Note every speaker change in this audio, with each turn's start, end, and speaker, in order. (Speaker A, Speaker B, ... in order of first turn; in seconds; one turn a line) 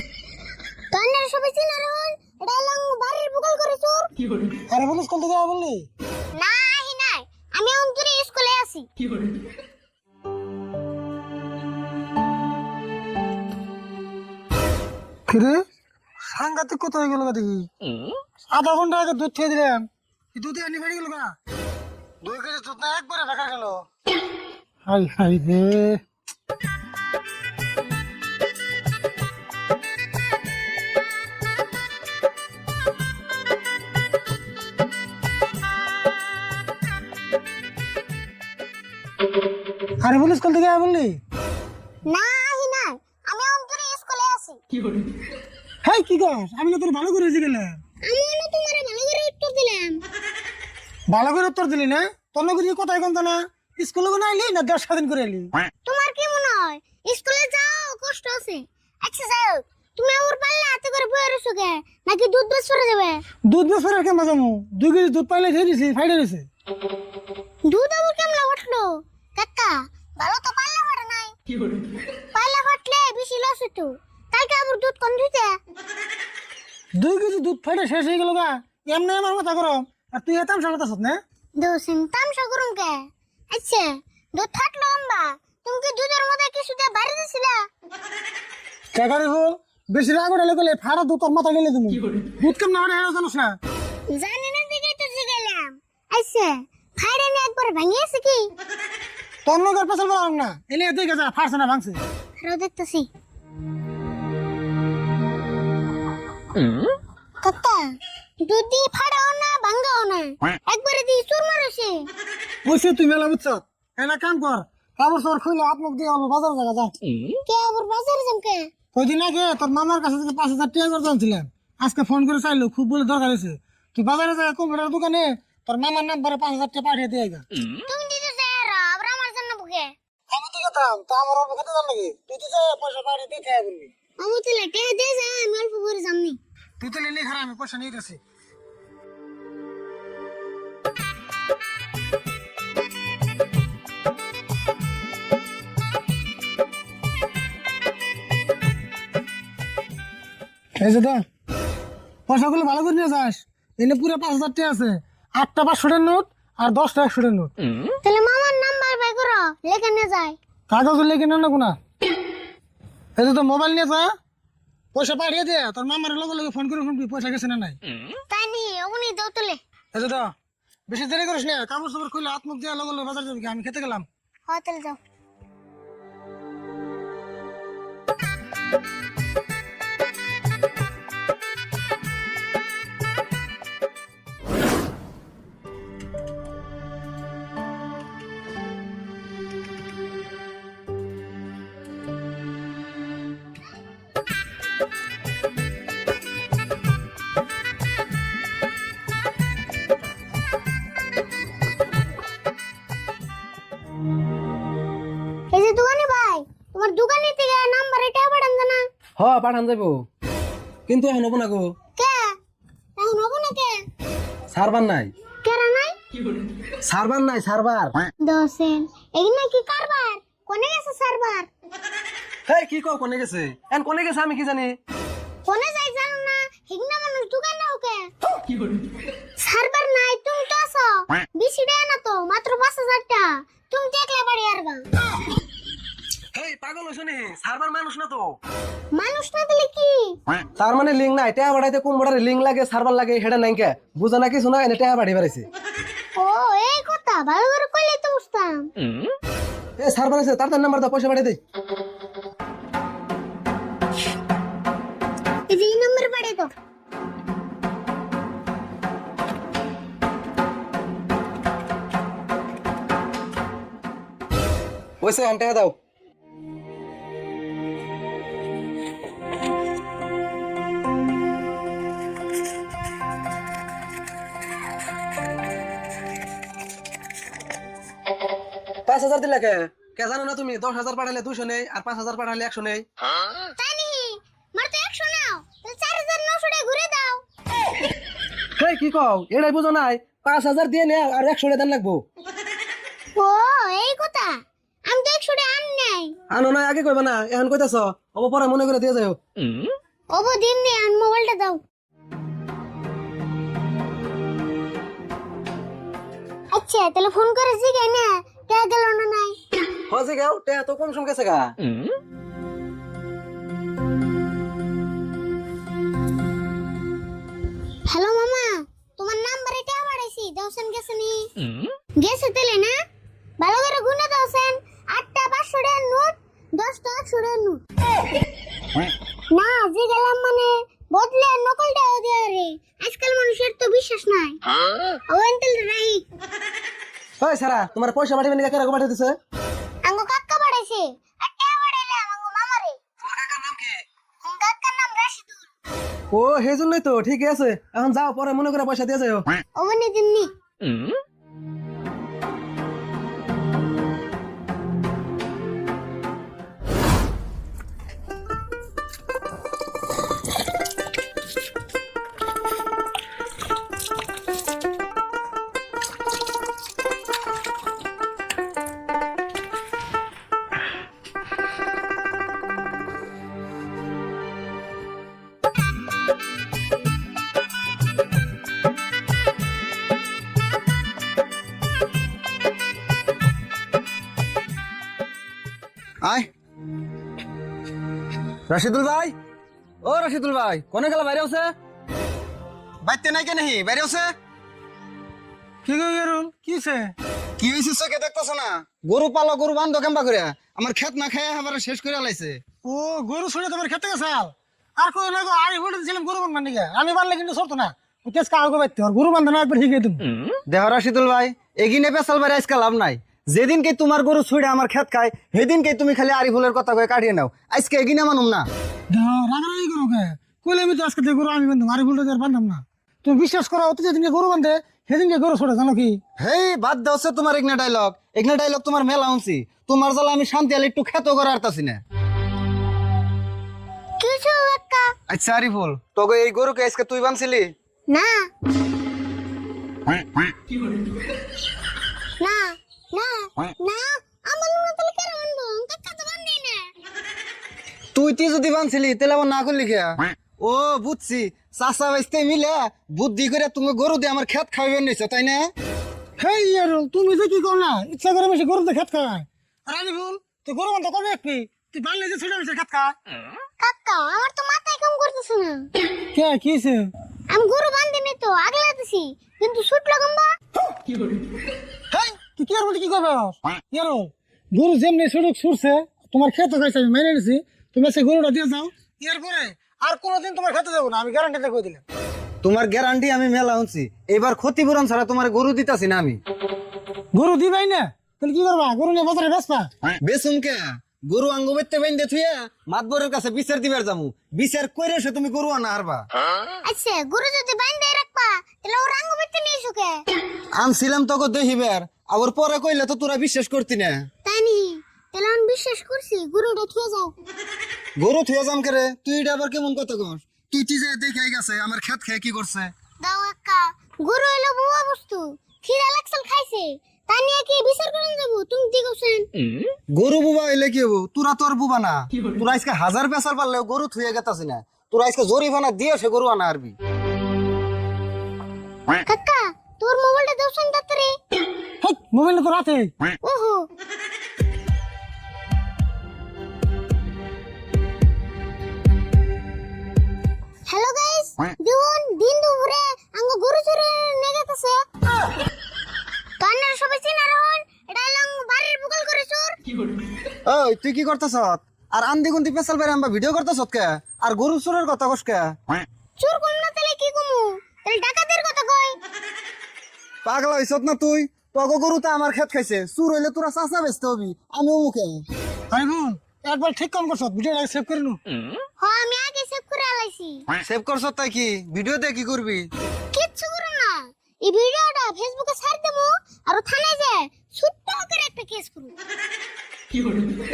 Speaker A: 0.9-4.1
Speaker B: 4.7-5.9
Speaker A: 6.3-8.9
Speaker B: 15.3-15.6
Speaker B: 16.3-17.7
Speaker B: 18.5-21.3
Speaker B: 22.2-23.9
Speaker B: 24.9-26.0
Speaker B: 40.0-41.2
Speaker A: 42.1-44.6
Speaker B: 45.8-47.8
Speaker A: 48.0-50.0
Speaker B: 51.1-55.5
Speaker A: 55.9-63.2
Speaker B: 63.5-66.5
Speaker A: 67.7-71.3
Speaker A: 72.3-75.6
Speaker B: 77.0-81.2
Speaker A: 81.6-87.6
Speaker B: 88.9-93.6
Speaker A: 94.1-98.5
Speaker B: 99.5-102.0
Speaker A: 102.4-103.1
Speaker A: 107.4-112.1
Speaker B: 112.6-116.9
Speaker A: 117.5-118.7
Speaker B: 118.9-127.4
Speaker A: 127.8-129.9
Speaker B: 130.3-133.9
Speaker A: 134.2-136.4
Speaker B: 136.8-138.2
Speaker B: 150.8-151.2
Speaker B: 152.3-157.5
Speaker A: 158.0-160.3
Speaker B: 160.7-161.8
Speaker B: 163.2-164.1
Speaker B: 164.9-167.8
Speaker A: 168.3-169.6
Speaker B: 169.9-170.3
Speaker B: 170.9-174.1
Speaker A: 174.5-175.0
Speaker A: 205.5-208.8
Speaker C: 209.2-210.0
Speaker C: 210.9-211.7
Speaker A: 212.0-212.3
Speaker A: 213.0-213.8
Speaker C: 214.5-215.1
Speaker A: 215.4-215.9
Speaker C: 216.8-217.9
Speaker A: 218.2-221.5
Speaker C: 222.5-224.7
Speaker A: 225.4-228.1
Speaker A: 229.4-234.8
Speaker C: 236.3-238.3
Speaker A: 238.9-240.2
Speaker C: 240.6-245.5
Speaker A: 246.2-248.7
Speaker C: 249.8-251.4
Speaker A: 255.5-256.5
Speaker C: 265.0-265.7
Speaker C: 278.9-282.8
Speaker A: 283.6-287.2
Speaker C: 288.6-292.0
Speaker A: 293.1-294.3
Speaker A: 294.9-296.1
Speaker C: 296.3-299.2
Speaker A: 300.1-301.6
Speaker A: 306.5-309.4
Speaker C: 309.9-311.5
Speaker A: 317.8-321.3
Speaker A: 322.0-322.7
Speaker A: 323.4-327.6
Speaker A: 329.3-334.4
Speaker A: 335.1-336.0
Speaker C: 337.2-339.1
Speaker A: 339.8-342.8
Speaker C: 343.1-343.8
Speaker A: 344.2-345.4
Speaker C: 346.1-349.3
Speaker A: 349.6-350.3
Speaker D: 386.0-386.3
Speaker D: 388.5-389.1
Speaker D: 389.8-391.5
Speaker D: 392.8-394.1
Speaker B: 395.6-396.9
Speaker D: 397.4-402.4
Speaker B: 402.6-410.1
Speaker D: 410.5-418.5
Speaker B: 418.9-426.0
Speaker D: 426.2-431.8
Speaker A: 434.0-434.9
Speaker D: 435.1-437.5
Speaker A: 437.9-438.3
Speaker A: 442.2-446.7
Speaker D: 447.9-455.5
Speaker B: 456.2-462.9
Speaker A: 463.6-465.7
Speaker B: 466.1-466.9
Speaker A: 467.3-470.3
Speaker B: 471.9-481.8
Speaker D: 482.4-486.2
Speaker B: 487.1-489.7
Speaker D: 490.0-496.1
Speaker A: 496.6-500.0
Speaker D: 500.6-504.0
Speaker A: 504.2-507.1
Speaker D: 508.0-512.7
Speaker A: 513.0-519.2
Speaker D: 519.9-526.7
Speaker A: 529.0-531.1
Speaker B: 531.8-532.9
Speaker A: 533.2-533.6
Speaker A: 540.7-544.8
Speaker A: 546.4-549.6
Speaker D: 550.5-555.5
Speaker A: 556.2-559.0
Speaker D: 560.2-565.2
Speaker B: 565.7-568.2
Speaker A: 568.8-570.4
Speaker D: 570.6-572.7
Speaker A: 573.1-578.9